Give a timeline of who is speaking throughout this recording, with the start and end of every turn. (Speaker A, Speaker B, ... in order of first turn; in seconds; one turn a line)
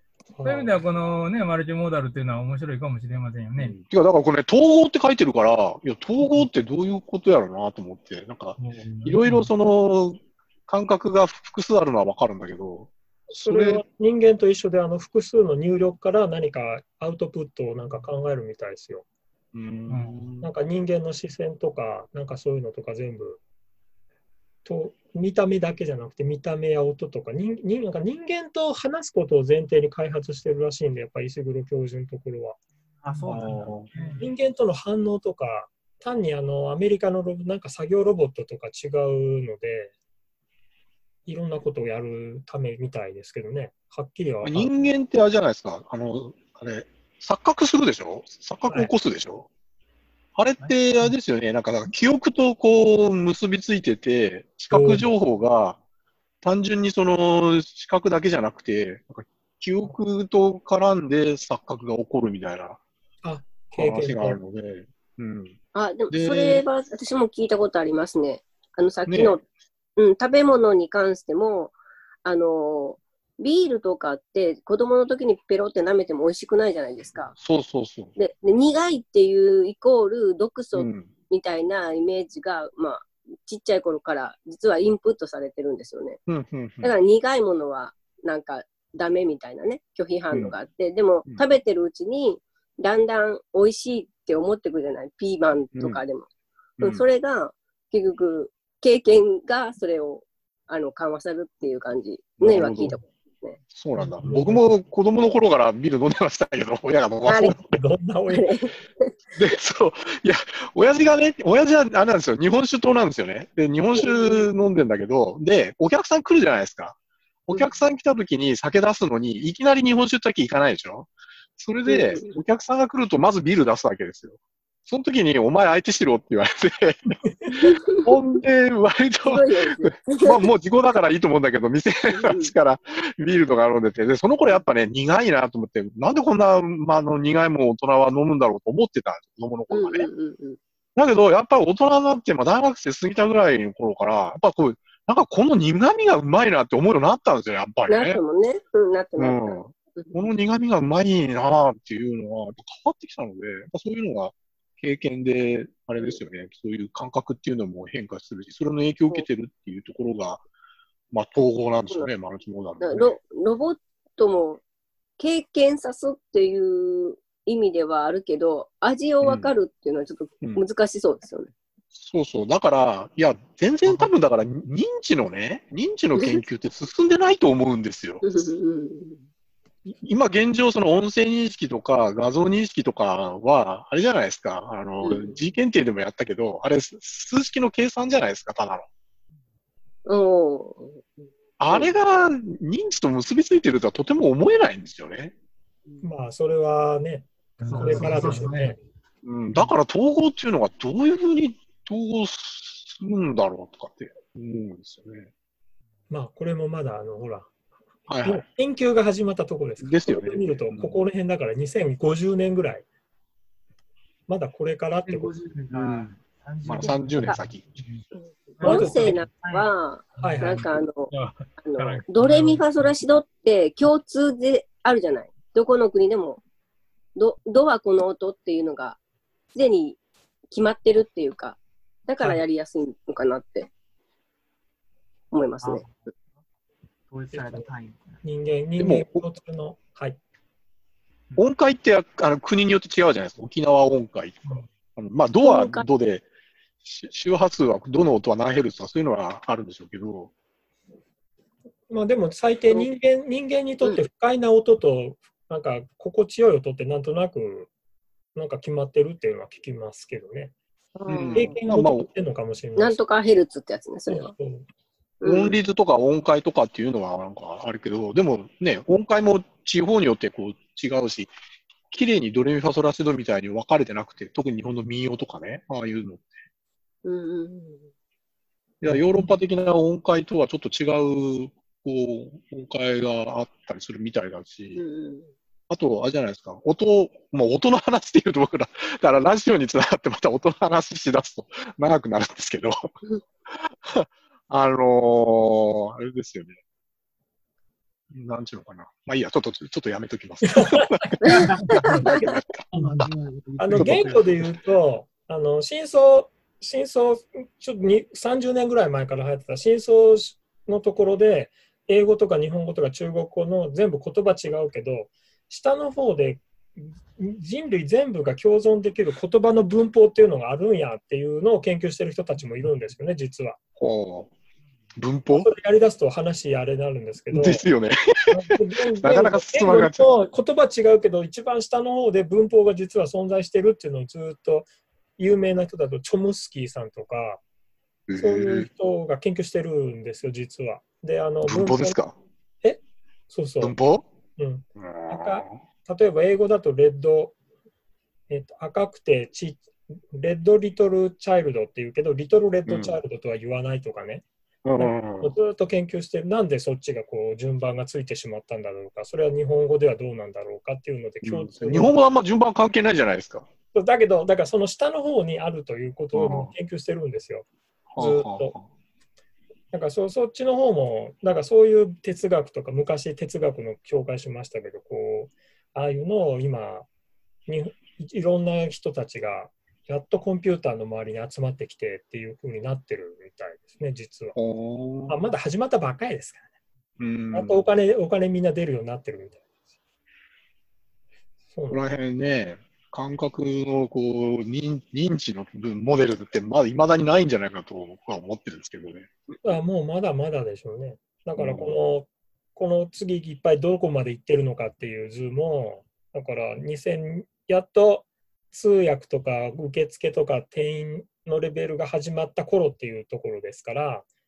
Speaker A: 0.3-0.8
Speaker B: 0.4-3.8
Speaker C: 3.6-13.8
Speaker B: 8.6-9.5
Speaker A: 13.3-19.0
Speaker C: 19.5-20.5
Speaker B: 19.9-20.3
Speaker A: 20.4-23.4
Speaker A: 24.6-32.6
Speaker D: 33.0-34.3
Speaker B: 33.1-34.2
Speaker C: 33.3-33.9
Speaker A: 34.2-39.9
Speaker A: 41.3-44.8
Speaker C: 44.4-49.5
Speaker C: 50.4-55.8
Speaker A: 54.7-55.1
Speaker C: 56.4-62.8
Speaker A: 63.2-64.4
Speaker C: 63.8-65.6
Speaker E: 65.7-69.4
Speaker C: 66.1-66.7
Speaker C: 69.1-69.4
Speaker E: 70.0-77.3
Speaker C: 77.4-78.1
Speaker E: 78.2-86.2
Speaker C: 80.8-81.1
Speaker C: 86.3-86.9
Speaker E: 86.8-96.3
Speaker C: 90.3-90.6
Speaker C: 95.7-96.0
Speaker C: 96.8-97.1
Speaker E: 96.8-103.6
Speaker C: 102.4-103.0
Speaker C: 103.7-107.6
Speaker A: 104.0-104.6
Speaker E: 107.3-107.5
Speaker A: 107.3-108.5
Speaker E: 108.3-109.1
Speaker C: 109.4-117.0
Speaker E: 113.9-114.5
Speaker C: 117.5-127.1
Speaker E: 117.5-117.8
Speaker E: 121.8-122.4
Speaker E: 127.5-128.1
Speaker C: 128.0-140.1
Speaker E: 129.2-130.5
Speaker E: 132.1-132.5
Speaker E: 139.7-140.6
Speaker C: 141.0-148.2
Speaker E: 147.9-150.2
Speaker C: 149.2-160.4
Speaker C: 161.1-163.2
Speaker E: 162.8-164.6
Speaker E: 165.2-171.5
Speaker C: 169.2-169.5
Speaker C: 170.4-170.7
Speaker C: 171.9-178.2
Speaker D: 173.9-174.1
Speaker E: 176.1-176.4
Speaker E: 178.2-179.2
Speaker C: 180.0-188.9
Speaker E: 185.0-185.4
Speaker E: 190.1-191.9
Speaker C: 191.6-195.3
Speaker A: 196.0-198.8
Speaker D: 197.6-198.7
Speaker B: 197.6-198.6
Speaker C: 199.2-205.3
Speaker A: 206.1-207.5
Speaker C: 208.1-208.4
Speaker A: 208.2-212.8
Speaker C: 209.8-211.0
Speaker A: 214.3-215.3
Speaker D: 215.0-217.9
Speaker C: 215.7-217.6
Speaker E: 218.1-226.4
Speaker D: 218.5-219.7
Speaker B: 218.6-219.2
Speaker B: 220.2-222.9
Speaker A: 220.2-220.6
Speaker E: 227.2-229.0
Speaker E: 229.5-230.0
Speaker E: 230.5-233.7
Speaker A: 232.2-232.5
Speaker E: 235.3-235.8
Speaker D: 235.6-236.4
Speaker D: 237.1-238.2
Speaker A: 237.3-237.7
Speaker A: 238.2-240.2
Speaker C: 238.8-239.3
Speaker C: 241.4-246.3
Speaker E: 245.4-245.9
Speaker C: 246.8-250.3
Speaker A: 251.9-257.7
Speaker A: 258.4-260.5
Speaker E: 261.0-261.6
Speaker C: 261.1-262.1
Speaker A: 261.3-263.0
Speaker E: 262.8-264.3
Speaker A: 264.1-264.7
Speaker E: 265.2-265.6
Speaker C: 265.2-271.3
Speaker C: 271.9-276.3
Speaker E: 277.1-277.9
Speaker C: 278.8-284.8
Speaker E: 284.8-285.3
Speaker C: 285.7-292.9
Speaker C: 293.5-296.6
Speaker C: 298.1-302.6
Speaker A: 300.5-301.0
Speaker B: 301.6-302.1
Speaker D: 302.7-304.6
Speaker B: 302.8-303.1
Speaker A: 303.6-323.6
Speaker C: 303.8-304.2
Speaker C: 323.8-324.3
Speaker C: 325.0-325.5
Speaker A: 325.3-327.7
Speaker C: 327.3-328.3
Speaker A: 328.3-337.4
Speaker C: 329.0-330.1
Speaker C: 338.1-338.7
Speaker A: 338.2-342.0
Speaker C: 341.4-342.2
Speaker A: 342.6-343.8
Speaker C: 343.6-344.1
Speaker A: 344.4-347.4
Speaker C: 344.8-345.6
Speaker A: 348.3-354.2
Speaker C: 352.7-353.0
Speaker C: 354.6-355.4
Speaker A: 354.8-362.0
Speaker C: 361.2-363.5
Speaker A: 363.7-367.5
Speaker C: 366.1-366.5
Speaker C: 367.9-368.7
Speaker A: 368.0-368.5
Speaker A: 369.7-376.9
Speaker A: 377.5-384.4
Speaker C: 384.4-385.2
Speaker A: 385.1-386.4
Speaker C: 387.0-387.6
Speaker A: 387.3-389.4
Speaker A: 391.5-391.8
Speaker C: 391.7-399.1
Speaker A: 399.4-414.1
Speaker C: 401.4-401.8